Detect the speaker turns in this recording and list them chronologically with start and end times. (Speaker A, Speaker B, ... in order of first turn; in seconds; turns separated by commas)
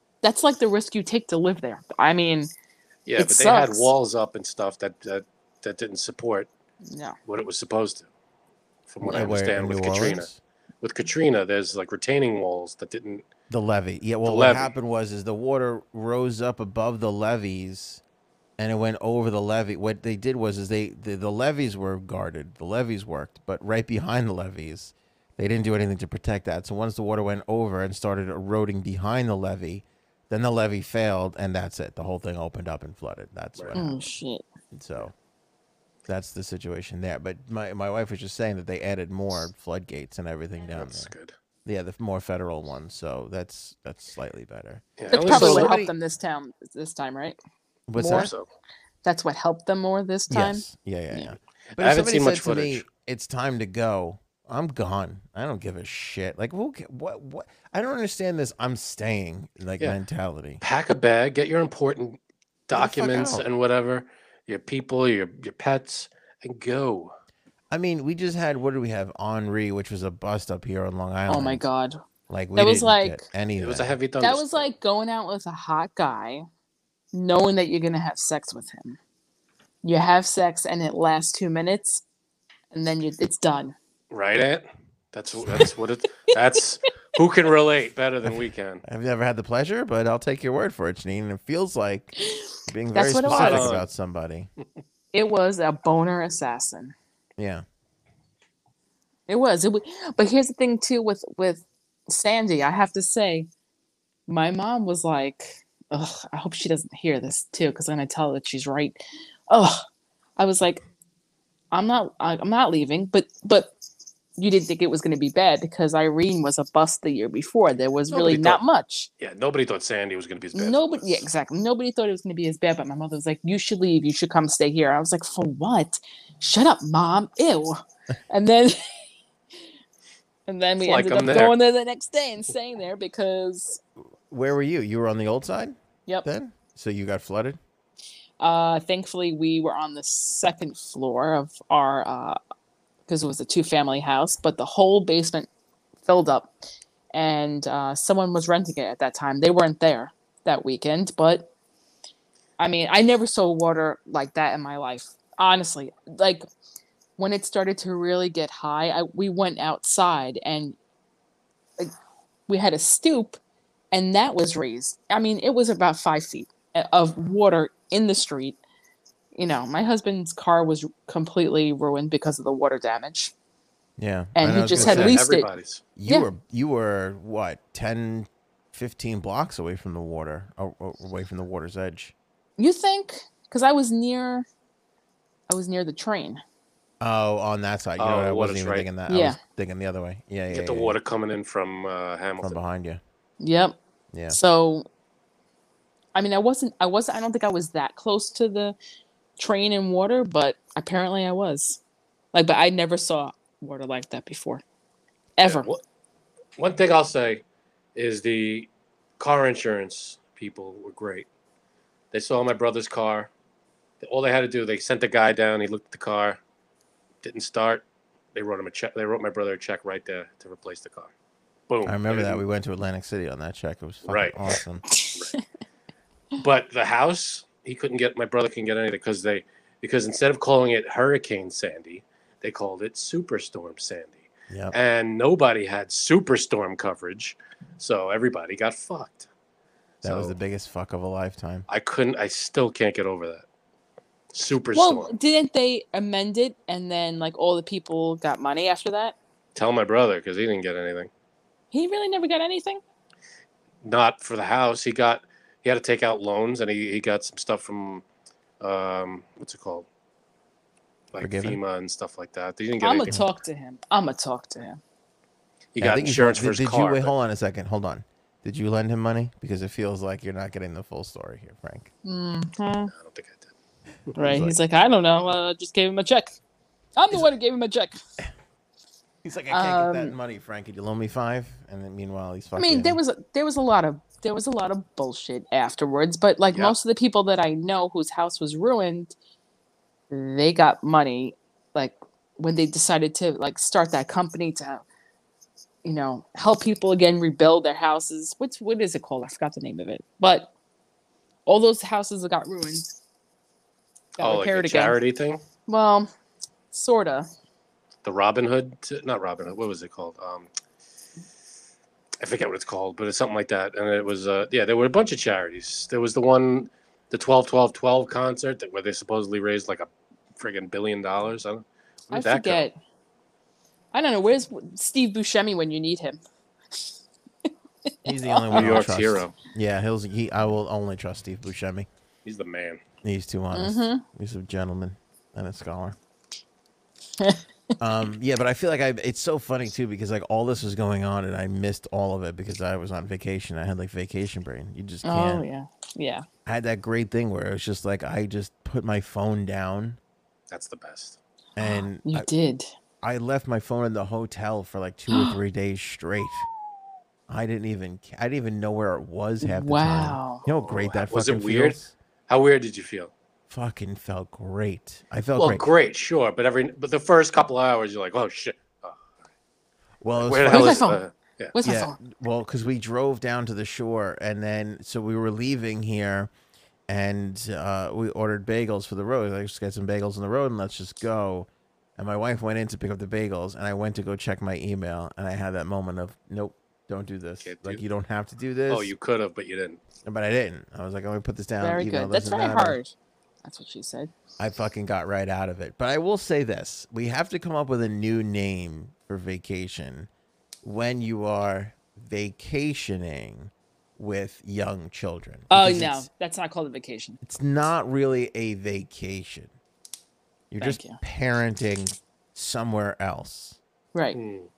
Speaker A: 0.2-2.5, Speaker B: 3.1-6.5, Speaker A: 3.2-3.9, Speaker A: 6.9-7.2, Speaker B: 7.3-8.1, Speaker B: 8.9-10.3, Speaker C: 9.0-10.4, Speaker B: 10.8-13.2, Speaker C: 13.5-18.0, Speaker B: 14.2-14.7, Speaker C: 18.6-34.0, Speaker A: 33.7-34.5, Speaker C: 34.7-35.1, Speaker C: 36.1-41.1, Speaker B: 40.7-41.3, Speaker C: 41.6-45.9, Speaker B: 45.0-45.8, Speaker A: 45.1-47.4, Speaker C: 47.9-48.3, Speaker A: 48.0-48.3, Speaker B: 48.0-48.5, Speaker A: 49.0-51.4, Speaker C: 50.3-60.6, Speaker B: 51.8-52.9, Speaker B: 60.6-67.1, Speaker C: 62.7-63.5, Speaker C: 67.7-71.7, Speaker A: 71.3-72.0, Speaker C: 72.3-74.0, Speaker A: 72.6-73.2, Speaker B: 73.6-74.7, Speaker A: 74.2-76.5, Speaker A: 77.1-79.0, Speaker A: 79.8-82.0, Speaker A: 82.7-83.8, Speaker B: 84.1-88.8, Speaker C: 88.8-94.5, Speaker A: 92.9-93.8, Speaker B: 93.3-93.9, Speaker A: 95.1-96.9, Speaker C: 97.4-97.6, Speaker A: 99.3-103.5, Speaker A: 104.3-109.8, Speaker A: 110.4-110.8, Speaker A: 111.7-113.8, Speaker A: 114.4-119.1, Speaker B: 118.1-118.6, Speaker B: 119.2-121.2, Speaker A: 120.5-129.0, Speaker A: 130.5-133.8, Speaker B: 130.8-131.6, Speaker C: 134.3-137.6, Speaker A: 138.4-142.4, Speaker A: 143.1-145.5, Speaker A: 146.1-146.6, Speaker A: 147.1-151.5, Speaker A: 152.6-156.4, Speaker A: 157.2-160.8, Speaker A: 162.5-163.4, Speaker A: 163.9-168.6, Speaker A: 169.3-173.3, Speaker C: 174.0-175.2, Speaker A: 174.3-175.5, Speaker B: 174.7-175.8, Speaker C: 176.0-182.1, Speaker A: 182.6-184.5, Speaker A: 185.5-186.4, Speaker C: 187.0-191.0, Speaker B: 188.0-188.9, Speaker A: 189.1-189.4, Speaker B: 190.5-192.6, Speaker C: 192.4-193.0, Speaker A: 193.4-193.8, Speaker C: 194.1-194.4, Speaker A: 194.3-194.9, Speaker A: 196.2-198.8, Speaker A: 199.4-201.8, Speaker A: 202.3-204.6, Speaker A: 205.4-205.7, Speaker B: 205.4-205.8, Speaker B: 206.6-207.4, Speaker B: 207.9-211.3, Speaker B: 212.1-213.3, Speaker B: 214.0-216.4, Speaker B: 217.2-221.1, Speaker B: 221.7-222.4, Speaker C: 221.8-224.9, Speaker B: 224.1-224.5, Speaker A: 224.9-225.4, Speaker B: 226.4-239.3, Speaker C: 234.5-234.8, Speaker B: 240.0-240.4, Speaker C: 240.0-241.7, Speaker B: 241.7-243.4, Speaker B: 244.3-245.1, Speaker A: 244.7-249.2, Speaker B: 249.6-251.1, Speaker A: 251.7-252.8, Speaker B: 253.8-258.0, Speaker B: 258.6-259.9, Speaker B: 261.1-263.2, Speaker C: 261.2-261.6, Speaker A: 262.8-264.8, Speaker B: 265.8-267.1, Speaker C: 265.8-271.9, Speaker A: 272.0-272.9, Speaker B: 272.9-273.5, Speaker A: 274.2-276.3, Speaker C: 274.2-274.6, Speaker A: 277.0-278.0, Speaker C: 279.2-283.0, Speaker A: 279.5-280.1, Speaker A: 282.6-289.1, Speaker A: 290.1-294.8, Speaker A: 295.9-300.5, Speaker A: 301.5-302.9, Speaker A: 304.2-305.0, Speaker B: 304.2-305.4, Speaker A: 305.7-306.1, Speaker A: 306.7-307.3, Speaker B: 308.0-310.5, Speaker B: 312.2-322.6, Speaker A: 322.1-322.8, Speaker A: 323.9-326.2, Speaker A: 327.4-328.9, Speaker C: 328.1-331.9, Speaker B: 328.5-329.3, Speaker B: 332.2-332.8, Speaker C: 333.0-336.0, Speaker A: 333.5-334.0, Speaker C: 337.8-345.5, Speaker A: 345.0-346.2, Speaker C: 346.5-350.0, Speaker B: 350.5-351.2, Speaker C: 351.6-352.3, Speaker A: 351.6-352.7, Speaker C: 353.0-356.5, Speaker C: 357.3-361.9, Speaker A: 359.4-360.5, Speaker B: 360.6-363.1, Speaker C: 363.5-365.6, Speaker B: 365.4-369.0, Speaker C: 370.0-370.9, Speaker B: 370.2-371.5, Speaker A: 370.5-371.0, Speaker A: 371.5-372.0, Speaker C: 371.6-376.3, Speaker C: 376.9-388.9, Speaker B: 387.4-387.8, Speaker B: 388.7-389.8, Speaker C: 390.1-392.8, Speaker A: 391.6-394.1, Speaker C: 394.4-400.1, Speaker C: 400.6-406.1, Speaker A: 405.5-407.2, Speaker C: 407.2-409.5, Speaker C: 410.5-413.6, Speaker A: 410.6-411.0, Speaker A: 413.9-414.2, Speaker B: 414.1-414.5